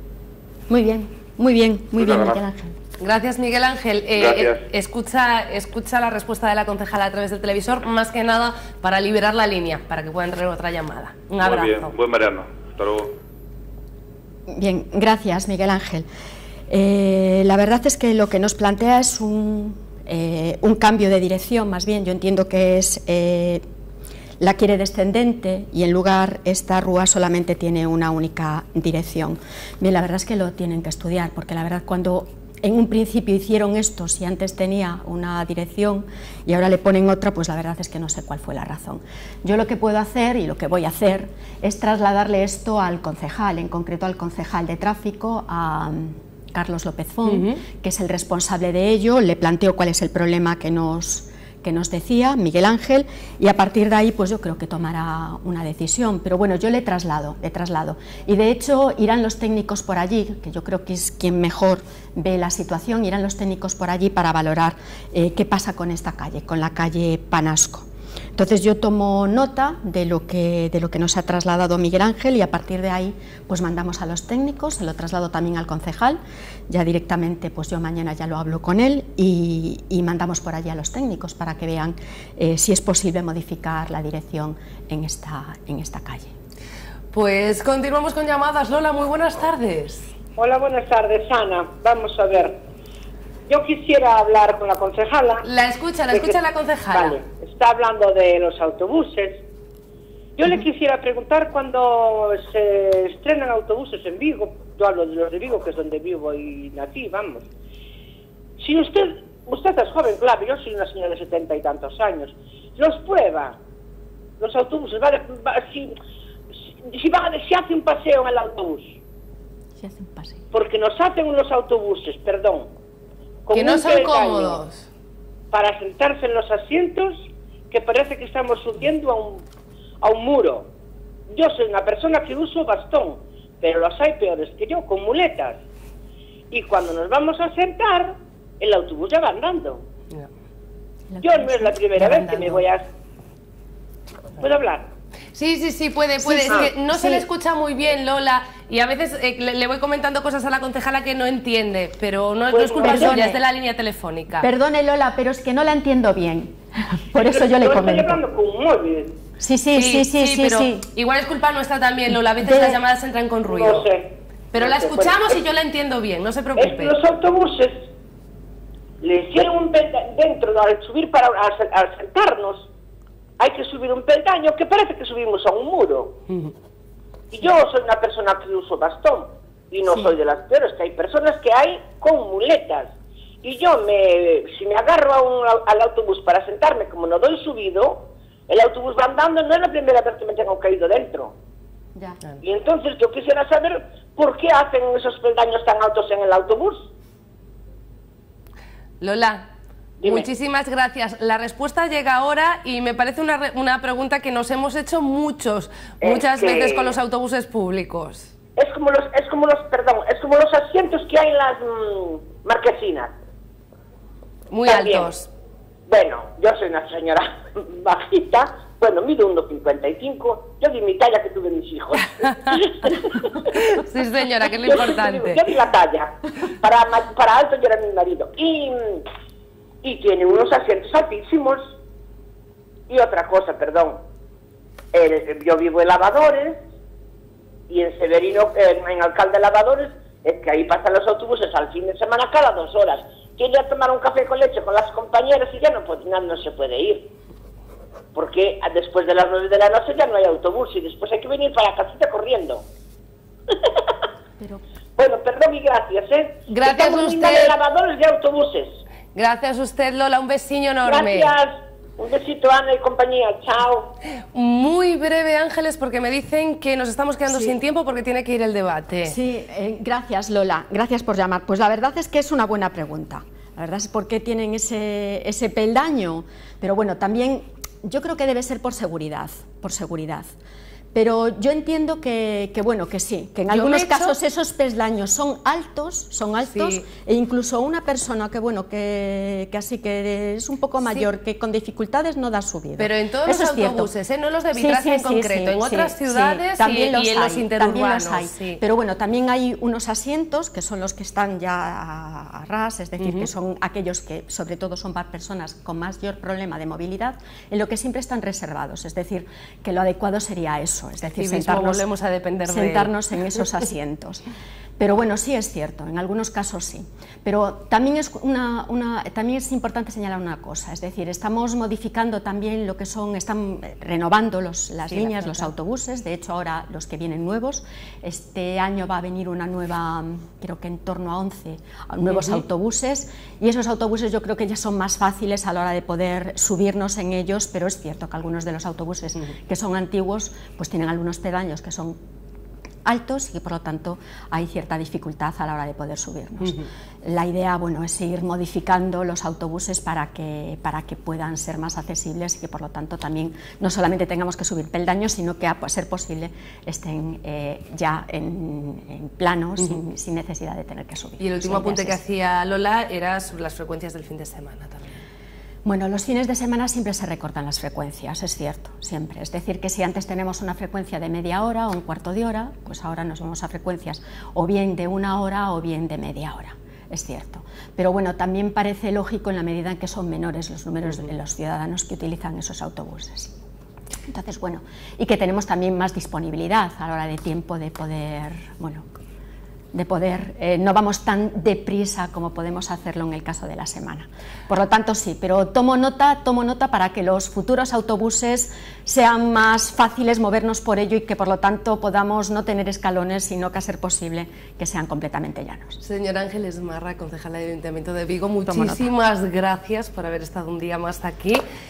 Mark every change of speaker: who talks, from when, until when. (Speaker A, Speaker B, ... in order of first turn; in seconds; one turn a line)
Speaker A: 0.7-2.7
Speaker B: 1.9-2.4
Speaker C: 3.0-11.9
Speaker B: 4.1-4.7
Speaker B: 11.4-13.1
Speaker A: 14.5-16.1
Speaker A: 16.7-23.6
Speaker A: 24.4-86.3
Speaker C: 47.2-47.6
Speaker C: 87.1-90.1
Speaker D: 90.4-92.6
Speaker D: 93.5-95.5
Speaker C: 95.4-97.2
Speaker D: 96.1-96.4
Speaker D: 96.9-99.4
Speaker D: 100.4-107.5
Speaker D: 108.6-113.5
Speaker D: 114.4-115.9
Speaker D: 116.9-118.9
Speaker A: 119.8-120.4
Speaker D: 120.5-122.7
Speaker D: 123.5-124.6
Speaker C: 123.5-124.8
Speaker D: 125.5-129.4
Speaker D: 130.0-130.7
Speaker D: 131.3-135.6
Speaker D: 136.5-139.8
Speaker A: 141.1-142.6
Speaker D: 141.2-142.8
Speaker D: 144.4-144.9
Speaker C: 145.3-154.5
Speaker A: 146.2-147.2
Speaker D: 152.5-153.2
Speaker A: 152.8-153.4
Speaker A: 154.4-158.2
Speaker D: 157.2-159.2
Speaker A: 159.4-160.8
Speaker C: 159.7-163.9
Speaker A: 162.4-162.8
Speaker D: 163.5-165.4
Speaker C: 164.5-166.9
Speaker D: 166.6-167.9
Speaker D: 169.0-172.7
Speaker D: 173.4-176.2
Speaker D: 177.3-191.3
Speaker D: 192.4-196.9
Speaker C: 199.0-199.4
Speaker D: 200.0-200.3
Speaker C: 200.0-208.3
Speaker D: 206.0-207.0
Speaker D: 208.6-213.1
Speaker C: 214.5-215.3
Speaker D: 214.7-215.1
Speaker D: 215.9-223.6
Speaker C: 223.7-225.4
Speaker D: 224.6-229.1
Speaker D: 229.8-231.7
Speaker D: 232.9-234.0
Speaker D: 234.9-236.6
Speaker D: 237.7-247.1
Speaker D: 248.1-252.6
Speaker D: 255.0-258.8
Speaker C: 256.5-257.6
Speaker C: 259.1-261.3
Speaker D: 260.8-263.9
Speaker C: 264.3-269.2
Speaker A: 269.0-280.3
Speaker A: 280.9-293.9
Speaker C: 283.5-284.1
Speaker C: 286.5-286.8
Speaker C: 292.8-298.6
Speaker A: 294.5-311.8
Speaker C: 303.0-303.3
Speaker C: 311.2-312.9
Speaker A: 312.4-314.2
Speaker A: 314.8-342.0
Speaker C: 324.9-325.4
Speaker C: 332.1-332.4
Speaker A: 342.8-362.0
Speaker C: 361.2-364.9
Speaker A: 365.6-383.3
Speaker A: 384.1-388.9
Speaker A: 389.7-405.8
Speaker C: 405.8-411.4
Speaker A: 408.4-408.9